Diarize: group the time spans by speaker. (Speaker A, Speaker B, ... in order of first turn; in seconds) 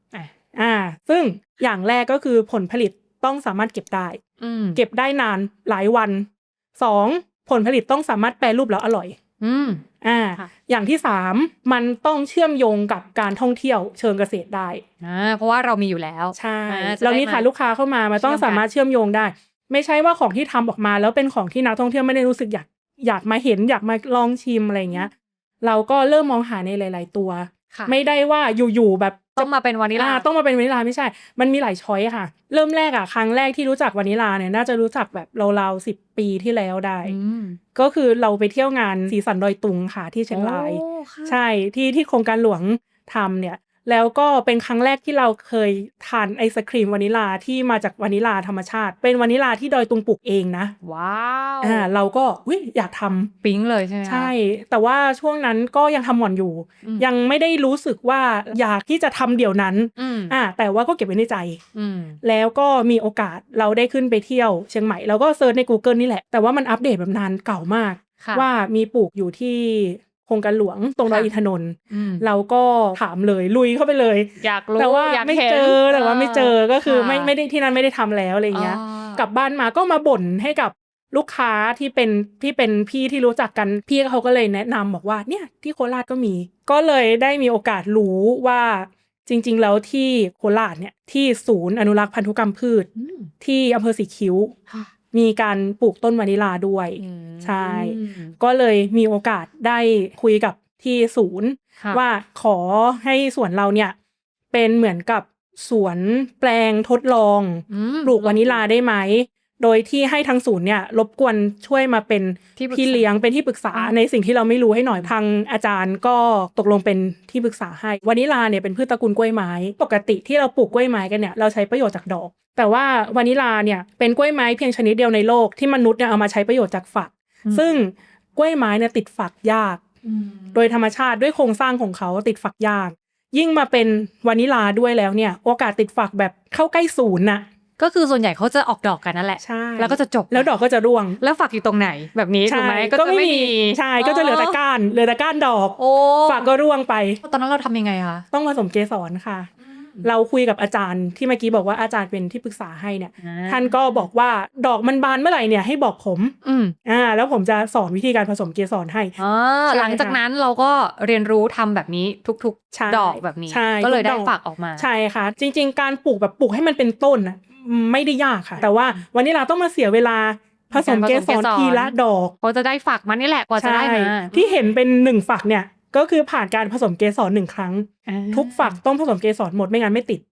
Speaker A: 0.6-4.2, 4.8-9.2, 10.0-14.8, 16.4-37.1, 37.8-50.7, 51.6-53.3, 54.0-61.6, 62.2-92.9, 93.4-94.5, 95.1-104.0, 104.5-129.8, 130.5-137.5, 139.4-141.2, 142.4-147.2, 148.3-149.5, 150.0-159.2, 159.7-160.2, 162.7-172.3, 173.6-180.2
Speaker B: 4.4-4.8, 9.4-9.8, 15.0-17.5, 18.2-18.6, 29.4-30.3, 37.0-37.6, 40.3-41.4, 50.8-51.9, 53.4-54.3, 60.0-60.3, 61.8-62.2, 68.2-68.5, 71.9-72.2, 74.4-77.3, 78.5-79.2, 93.0-93.3, 97.0-98.4, 107.7-108.6, 112.6-113.1, 130.1-130.6, 137.8-140.5, 141.2-144.6, 145.8-146.5, 147.2-148.3, 149.7-150.1, 153.2-154.0, 156.4-156.8, 159.2-164.9, 170.7-174.6, 178.1-178.8